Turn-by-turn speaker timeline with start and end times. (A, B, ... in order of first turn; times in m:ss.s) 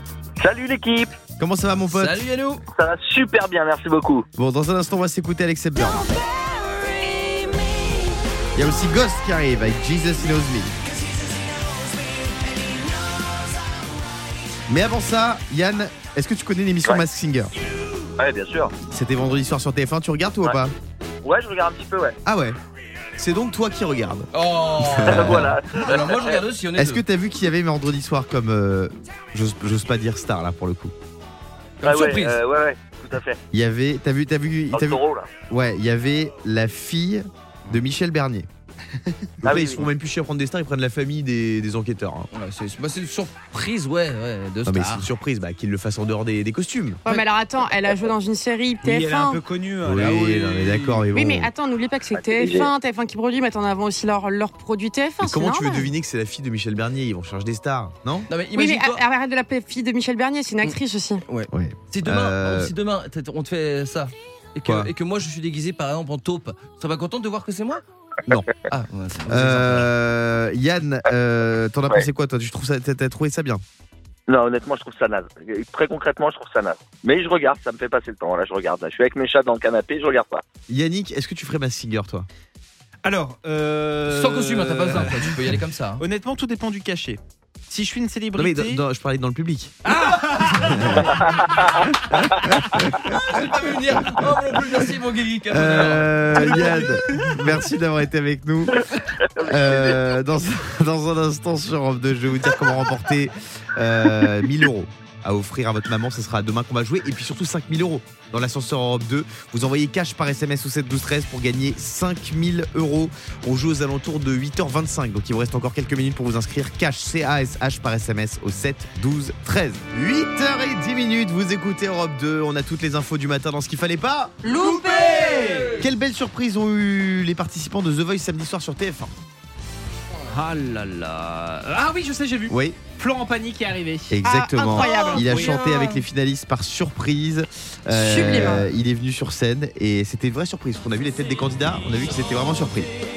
0:00.4-0:01.1 A
0:01.4-0:02.2 B
0:01.9-0:02.6 C
0:02.7-0:04.3 A
0:04.4-0:06.1 B
0:08.6-0:10.8 B
0:14.7-0:17.5 B
0:18.2-0:18.7 A
0:18.9-0:20.7 B
0:21.2-0:22.2 A
0:22.2-0:22.6 B
0:23.2-0:25.6 B
0:24.3-0:27.0 C
0:25.0-0:26.4 A
0:26.8-0:30.9 B
0:31.8-0:32.4 C
0:31.8-0:33.4 A
0:33.5-0:38.5 B
0:34.7-0:35.3 A
0:39.4-0:42.3 B
0:39.4-0:39.8 A
0:42.3-0:45.1 C
0:44.7-0:47.0 B
0:47.1-0:49.4 D
0:48.8-0:50.3 E
0:49.8-0:51.5 B
0:50.0-0:51.0 C
0:51.2-0:55.9 D
0:52.2-0:52.7 A
0:55.2-0:58.3 B
0:58.3-0:59.0 C
0:58.6-1:01.2 D
1:00.6-1:07.8 C
1:01.5-1:02.7 B
1:04.6-1:04.9 B
1:08.7-1:09.9 C
1:09.3-1:13.6 B
1:14.3-1:20.4 A
1:20.7-1:22.3 B
1:23.0-1:28.8 E
1:24.1-1:26.0 C
1:28.4-1:29.8 B
1:29.9-1:31.3 E
1:30.6-1:31.2 B
1:32.3-1:33.1 B
1:33.1-1:36.1 C
1:35.5-1:38.8 B
1:36.5-1:37.3 E
1:39.4-1:40.0 A
1:39.4-2:04.4 B
2:04.4-2:05.3 D
2:04.4-2:05.8 E
2:05.4-2:05.7 C
2:05.8-2:09.1 B
2:10.3-2:14.2 E
2:12.5-2:12.8 B
2:14.1-2:22.9 B
2:14.2-2:15.6 D
2:14.8-2:15.8 E
2:17.9-2:18.7 D